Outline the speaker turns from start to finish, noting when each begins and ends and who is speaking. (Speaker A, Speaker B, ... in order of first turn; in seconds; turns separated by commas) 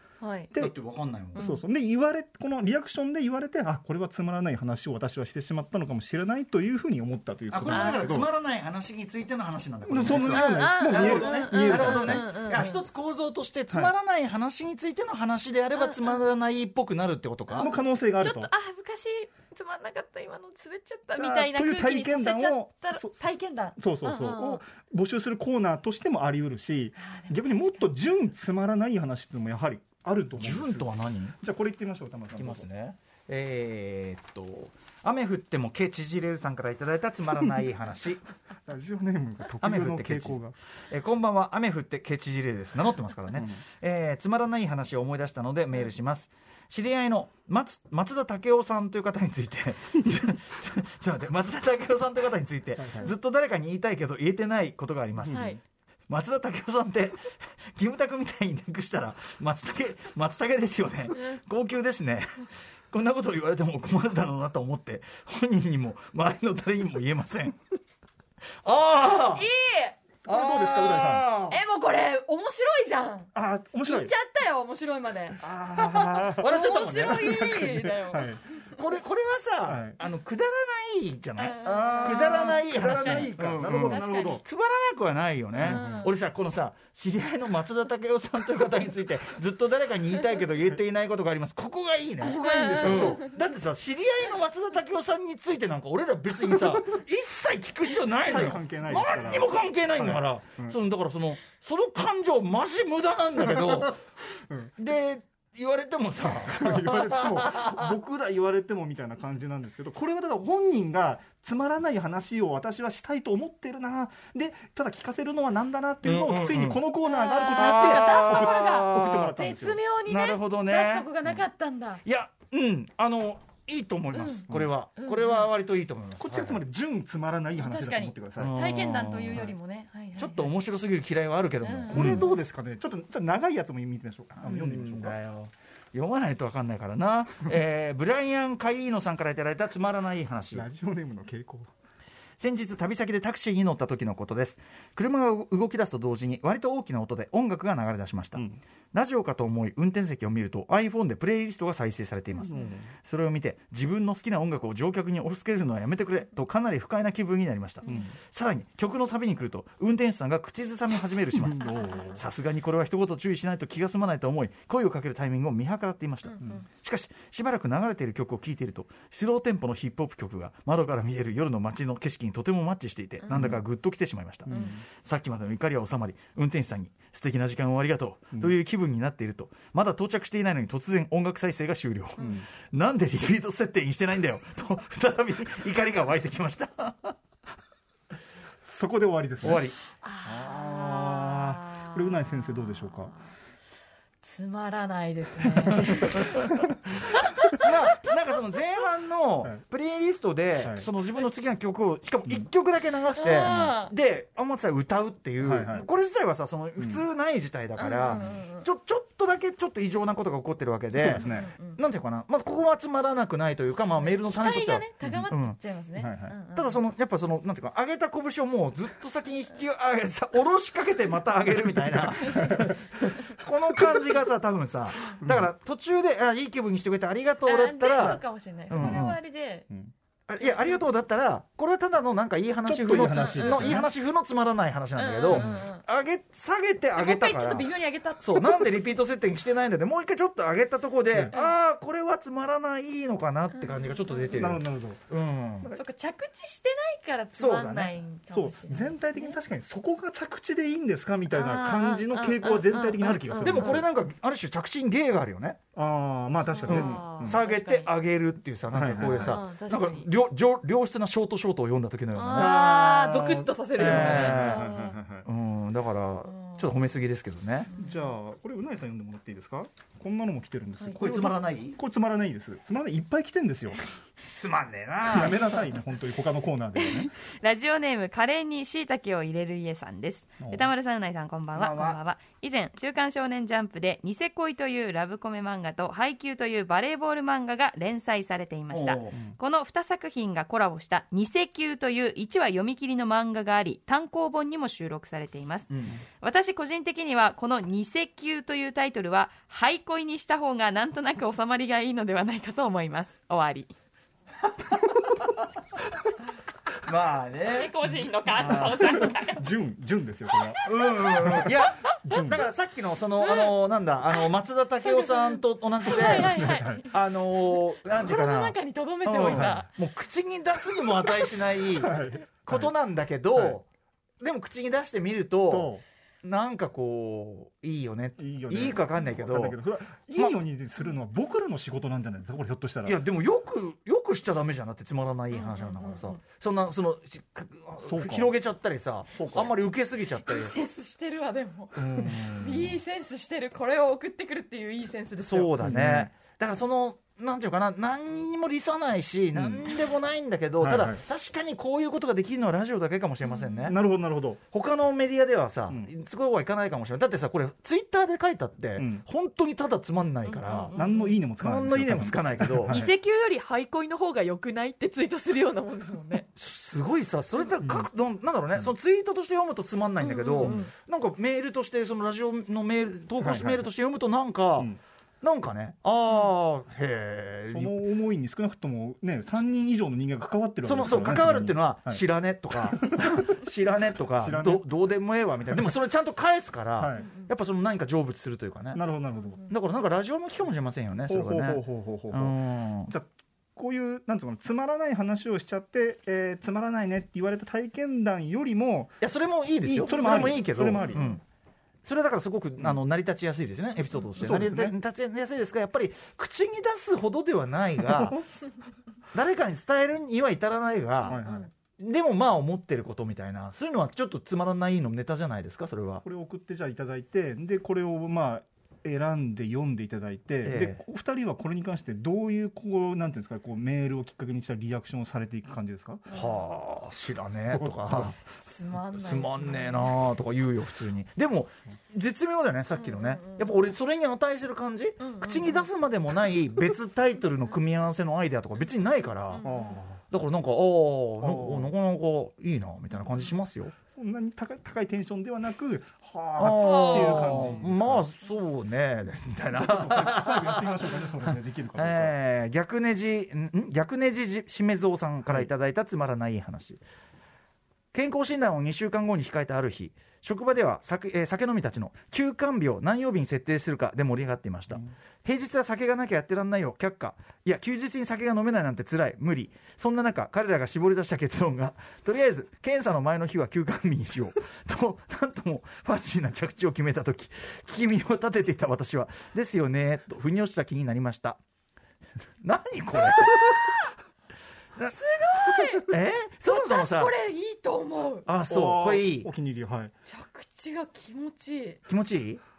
Speaker A: 0.2-0.5, Speaker B: 0.6-1.5, Speaker A: 1.4-1.6, Speaker C: 1.4-8.3, Speaker B: 7.5-17.7, Speaker A: 7.7-8.1, Speaker C: 9.9-12.4, Speaker A: 10.2-12.8, Speaker A: 15.8-16.2, Speaker A: 17.5-24.6, Speaker C: 17.6-18.5, Speaker C: 21.2-23.1, Speaker C: 23.8-32.7, Speaker A: 27.0-27.9, Speaker B: 30.3-31.4, Speaker B: 32.4-38.2, Speaker C: 38.7-40.5, Speaker B: 39.6-40.4, Speaker B: 40.9-55.5, Speaker C: 43.3-43.6, Speaker C: 52.8-53.1, Speaker C: 55.2-55.6, Speaker A: 55.3-55.6, Speaker B: 56.1-67.6, Speaker B: 68.6-69.5, Speaker A: 69.1-70.0, Speaker C: 70.2-71.4, Speaker B: 70.2-71.6, Speaker A: 71.5-73.3, Speaker C: 73.3-74.2, Speaker A: 73.8-75.5, Speaker C: 75.4-76.5, Speaker B: 75.7-77.6, Speaker A: 76.4-78.9, Speaker C: 77.0-78.4, Speaker B: 78.7-104.0, Speaker C: 79.7-80.0, Speaker A: 81.4-84.4, Speaker C: 81.7-84.4, Speaker C: 85.6-86.1, Speaker A: 85.7-86.1, Speaker C: 92.2-93.2, Speaker A: 92.3-93.3, Speaker C: 98.2-100.8, Speaker C: 103.6-103.9, Speaker B: 104.8-107.9, Speaker C: 106.5-119.8, Speaker B: 116.0-116.9, Speaker A: 117.0-122.0, Speaker B: 117.5-119.4, Speaker B: 120.1-121.3, Speaker B: 122.0-126.6, Speaker A: 124.1-125.5, Speaker C: 126.2-128.5, Speaker A: 127.6-130.6, Speaker B: 128.4-129.5, Speaker B: 130.2-132.3, Speaker A: 131.6-132.4, Speaker C: 131.9-135.2, Speaker B: 134.4-140.7, Speaker C: 140.5-141.7, Speaker B: 142.4-187.2, Speaker C: 148.3-148.6, Speaker A: 152.4-152.7, Speaker C: 152.5-152.9, Speaker C: 157.8-158.2, Speaker C: 161.3-162.2, Speaker A: 161.6-162.1, Speaker A: 166.3-166.7, Speaker C: 173.3-173.6, Speaker C: 174.5-174.8, Speaker A: 174.5-174.8, Speaker C: 182.2-182.5, Speaker C: 188.6-189.6, Speaker B: 189.4-189.8, Speaker A: 189.9-193.2, Speaker C: 190.3-193.2, Speaker A: 194.2-196.2, Speaker B: 195.7-196.4, Speaker C: 196.3-196.9, Speaker A: 197.2-197.9, Speaker B: 197.6-215.6, Speaker C: 200.6-200.9, Speaker A: 203.2-203.9, Speaker C: 205.4-205.9, Speaker A: 207.8-208.7, Speaker C: 211.0-211.5, Speaker A: 211.0-211.8, Speaker A: 213.8-216.8, Speaker C: 215.0-215.3, Speaker C: 216.0-216.4, Speaker B: 216.6-229.2, Speaker C: 222.4-222.7, Speaker C: 225.2-225.5, Speaker A: 227.4-229.7, Speaker C: 228.8-229.1, Speaker B: 230.3-237.7, Speaker A: 230.4-231.0, Speaker C: 232.7-233.9, Speaker A: 233.1-233.8, Speaker A: 234.9-235.8, Speaker C: 235.3-235.6, Speaker A: 236.9-238.8, Speaker B: 238.2-245.7, Speaker A: 243.6-244.5, Speaker C: 244.3-245.0, Speaker A: 245.7-249.4, Speaker B: 247.3-247.9, Speaker C: 248.3-253.8, Speaker A: 251.3-253.8, Speaker B: 253.4-255.6, Speaker C: 255.8-257.4, Speaker A: 256.4-257.9, Speaker B: 256.6-262.9, Speaker C: 258.7-259.4, Speaker A: 259.2-260.1, Speaker A: 262.1-265.0, Speaker C: 262.3-265.3, Speaker B: 263.8-264.7, Speaker B: 265.2-267.8, Speaker A: 266.3-266.7, Speaker A: 267.7-268.0, Speaker C: 267.8-273.8, Speaker B: 270.9-271.8, Speaker B: 274.3-275.7, Speaker C: 275.1-277.1, Speaker D: 276.9-295.7, Speaker C: 280.4-280.7, Speaker B: 281.6-282.0, Speaker B: 288.7-289.2, Speaker B: 295.7-296.0, Speaker D: 296.2-303.7, Speaker A: 302.4-302.8, Speaker B: 304.6-305.5, Speaker B: 306.8-307.8, Speaker A: 307.5-309.5, Speaker B: 308.3-308.9, Speaker C: 308.6-312.4, Speaker B: 310.6-323.7, Speaker A: 313.2-313.6, Speaker A: 314.8-317.0, Speaker C: 315.9-316.9, Speaker A: 317.5-319.7, Speaker C: 319.2-319.7, Speaker C: 321.8-322.7, Speaker B: 324.2-329.6, Speaker C: 325.5-325.8, Speaker C: 328.2-333.0, Speaker B: 332.8-340.6, Speaker A: 335.3-336.1, Speaker C: 337.9-338.4, Speaker C: 339.1-339.5, Speaker A: 340.2-345.6, Speaker C: 341.8-342.3, Speaker B: 341.9-342.8, Speaker B: 345.2-353.8, Speaker C: 345.6-346.1, Speaker C: 349.3-349.7, Speaker C: 350.6-351.0, Speaker A: 353.2-353.8, Speaker C: 353.7-354.4, Speaker B: 354.4-360.8, Speaker C: 358.8-359.1, Speaker A: 360.3-361.3, Speaker C: 360.7-362.9, Speaker B: 361.4-362.8, Speaker A: 362.7-366.3, Speaker B: 366.4-377.8, Speaker C: 367.6-367.9, Speaker A: 370.0-370.7, Speaker C: 373.2-373.7, Speaker C: 377.5-382.0, Speaker B: 380.6-388.8, Speaker C: 382.6-383.2, Speaker C: 384.1-384.7, Speaker C: 386.8-387.1, Speaker C: 388.7-389.4, Speaker B: 389.5-392.9, Speaker C: 391.1-399.0, Speaker B: 399.0-401.2, Speaker C: 399.6-401.1, Speaker A: 399.9-401.2, Speaker B: 401.9-408.2, Speaker C: 402.6-402.9, Speaker C: 404.2-404.8, Speaker B: 409.1-411.2, Speaker A: 411.1-411.5, Speaker C: 411.1-411.5, Speaker B: 411.8-416.1, Speaker C: 416.0-426.1, Speaker B: 420.4-420.8, Speaker A: 426.1-426.4, Speaker B: 426.1-428.2, Speaker C: 427.5-428.1, Speaker A: 428.2-430.0, Speaker B: 429.0-439.4, Speaker A: 432.8-433.5, Speaker A: 435.0-435.7, Speaker A: 439.3-439.8, Speaker C: 439.4-440.0, Speaker B: 440.0-443.8, Speaker C: 441.2-441.8, Speaker C: 443.9-448.1, Speaker B: 446.4-456.8, Speaker A: 446.5-447.5, Speaker C: 449.5-452.1, Speaker B: 457.9-481.4, Speaker B: 482.4-483.7, Speaker A: 484.8-485.9, Speaker B: 485.8-487.1, Speaker A: 486.4-488.3, Speaker B: 488.3-489.3, Speaker C: 488.5-489.9, Speaker A: 490.1-491.8, Speaker B: 491.9-492.4